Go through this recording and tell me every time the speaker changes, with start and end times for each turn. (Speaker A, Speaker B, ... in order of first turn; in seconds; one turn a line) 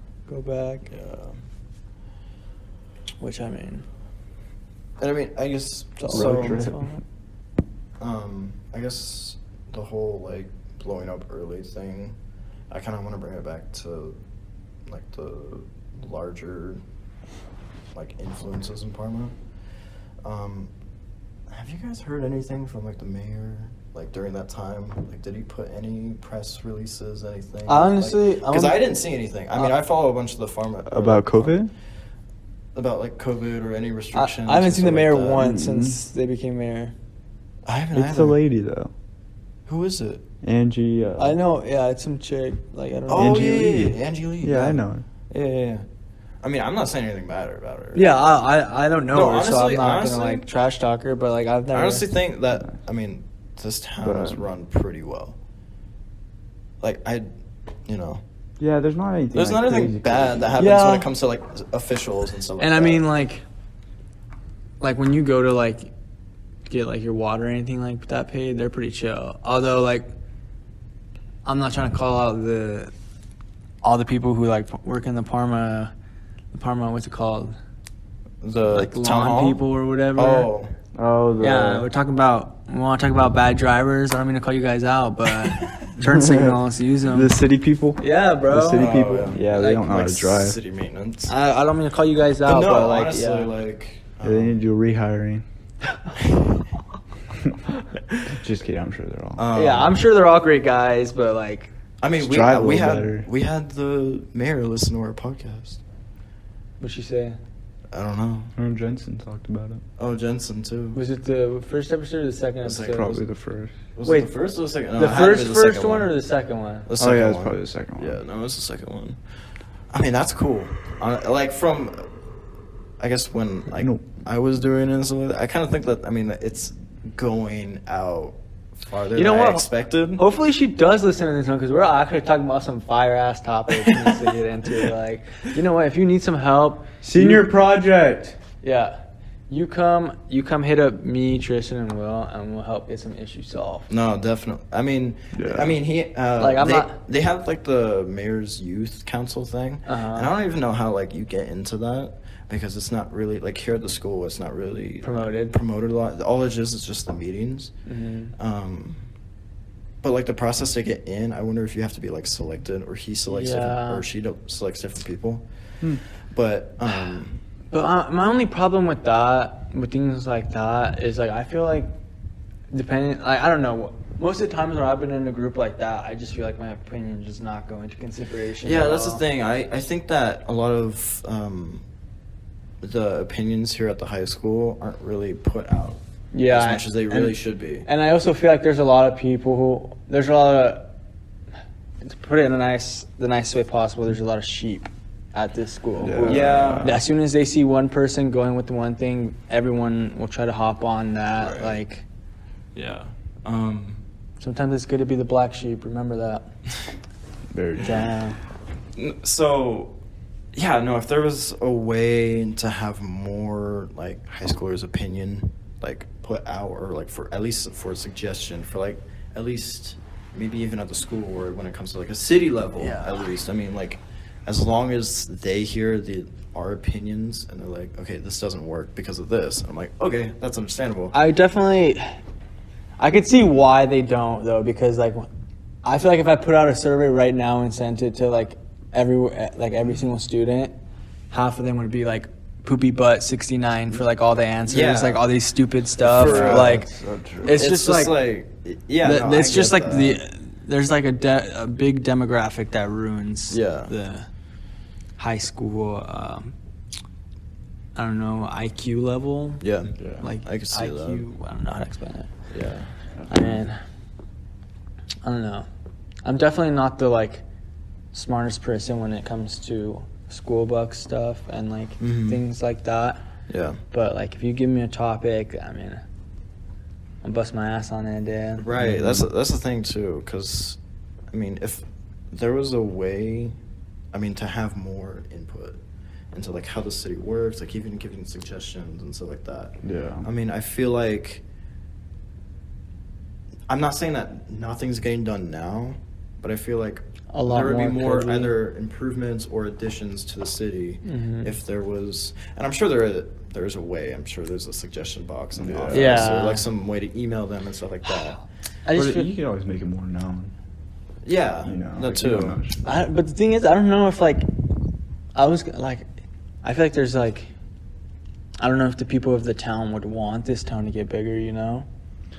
Speaker A: 0.3-0.9
Speaker B: 0.9-1.4
Speaker A: 3.2-3.8
Speaker B: 5.0-6.7
Speaker A: 6.0-7.0
Speaker C: 6.1-6.9
Speaker B: 8.0-12.2
Speaker B: 12.7-14.2
Speaker B: 14.9-16.8
Speaker B: 17.9-19.3
Speaker B: 20.2-20.7
Speaker B: 21.5-31.6
Speaker A: 27.7-28.8
Speaker C: 30.9-31.7
Speaker B: 32.7-35.5
Speaker A: 34.1-36.9
Speaker C: 35.4-36.0
Speaker B: 37.6-38.4
Speaker C: 37.9-38.9
Speaker B: 39.7-40.2
Speaker C: 40.4-41.4
Speaker A: 41.2-43.8
Speaker B: 43.1-45.8
Speaker C: 43.1-45.0
Speaker B: 46.4-48.2
Speaker A: 47.9-52.1
Speaker B: 49.1-50.5
Speaker B: 51.7-55.4
Speaker C: 54.0-54.4
Speaker B: 56.8-57.3
Speaker B: 57.9-58.2
Speaker C: 58.6-60.5
Speaker B: 59.3-63.0
Speaker A: 60.6-61.1
Speaker A: 62.6-63.4
Speaker A: 64.8-65.9
Speaker A: 66.7-70.1
Speaker A: 71.4-72.9
Speaker A: 73.8-75.9
Speaker A: 76.5-77.5
Speaker B: 78.4-80.7
Speaker A: 78.7-80.5
Speaker C: 80.9-81.9
Speaker A: 81.4-87.3
Speaker C: 86.0-90.6
Speaker A: 88.0-89.9
Speaker B: 88.7-91.3
Speaker A: 91.3-93.5
Speaker B: 92.4-94.5
Speaker C: 94.2-95.4
Speaker C: 98.2-99.5
Speaker B: 99.4-100.0
Speaker A: 99.5-101.7
Speaker B: 102.0-105.8
Speaker C: 102.2-103.3
Speaker A: 106.8-107.4
Speaker B: 107.9-108.5
Speaker C: 108.5-109.8
Speaker B: 110.0-111.0
Speaker A: 110.9-113.2
Speaker B: 112.6-113.2
Speaker C: 112.8-113.7
Speaker B: 113.9-116.1
Speaker A: 114.0-114.3
Speaker A: 114.9-116.9
Speaker B: 116.9-119.2
Speaker C: 117.0-118.2
Speaker B: 119.9-122.1
Speaker B: 123.0-130.2
Speaker C: 123.8-124.0
Speaker A: 129.1-137.5
Speaker C: 137.0-138.4
Speaker A: 138.6-139.0
Speaker A: 139.5-143.9
Speaker B: 143.9-157.7
Speaker C: 145.3-145.8
Speaker A: 146.4-147.0
Speaker A: 149.8-150.3
Speaker A: 155.0-155.6
Speaker A: 157.8-158.3
Speaker B: 158.3-159.0
Speaker B: 160.0-165.4
Speaker A: 163.3-164.0
Speaker B: 166.3-167.3
Speaker A: 167.7-171.9
Speaker A: 172.7-179.2
Speaker B: 178.6-181.8
Speaker B: 182.8-187.8
Speaker A: 186.3-190.9
Speaker A: 192.0-202.0
Speaker C: 196.0-197.0
Speaker B: 196.2-197.0
Speaker B: 201.3-201.8
Speaker B: 202.7-204.0
Speaker A: 204.4-206.5
Speaker C: 207.5-208.2
Speaker A: 207.8-208.4
Speaker B: 208.9-209.9
Speaker B: 210.5-231.1
Speaker A: 222.8-223.2
Speaker A: 231.1-232.2
Speaker A: 233.0-235.3
Speaker A: 235.8-240.7
Speaker A: 241.3-246.9
Speaker B: 244.6-245.2
Speaker B: 246.0-246.8
Speaker C: 246.1-247.6
Speaker A: 247.4-248.2
Speaker B: 247.4-250.2
Speaker A: 249.0-254.3
Speaker B: 253.5-253.9
Speaker A: 255.2-256.5
Speaker A: 257.9-259.6
Speaker B: 259.6-261.2
Speaker C: 260.0-260.3
Speaker A: 260.2-262.3
Speaker B: 262.5-262.9
Speaker C: 263.2-263.6
Speaker A: 263.3-263.8
Speaker A: 265.2-265.7
Speaker A: 266.2-267.4
Speaker A: 268.1-273.2
Speaker B: 272.0-272.4
Speaker B: 273.5-273.8
Speaker A: 273.9-276.0
Speaker A: 277.2-278.6
Speaker B: 278.6-280.8
Speaker C: 278.8-279.2
Speaker B: 281.3-283.6
Speaker B: 284.1-285.8
Speaker B: 286.3-291.4
Speaker C: 289.8-290.3
Speaker B: 293.7-308.4
Speaker A: 297.3-298.5
Speaker A: 301.0-301.5
Speaker C: 305.5-306.4
Speaker A: 305.9-306.6
Speaker A: 308.8-309.3
Speaker C: 308.9-310.5
Speaker B: 311.2-312.6
Speaker C: 311.6-312.8
Speaker A: 312.8-314.5
Speaker A: 315.3-316.1
Speaker A: 316.6-317.5
Speaker A: 318.6-321.9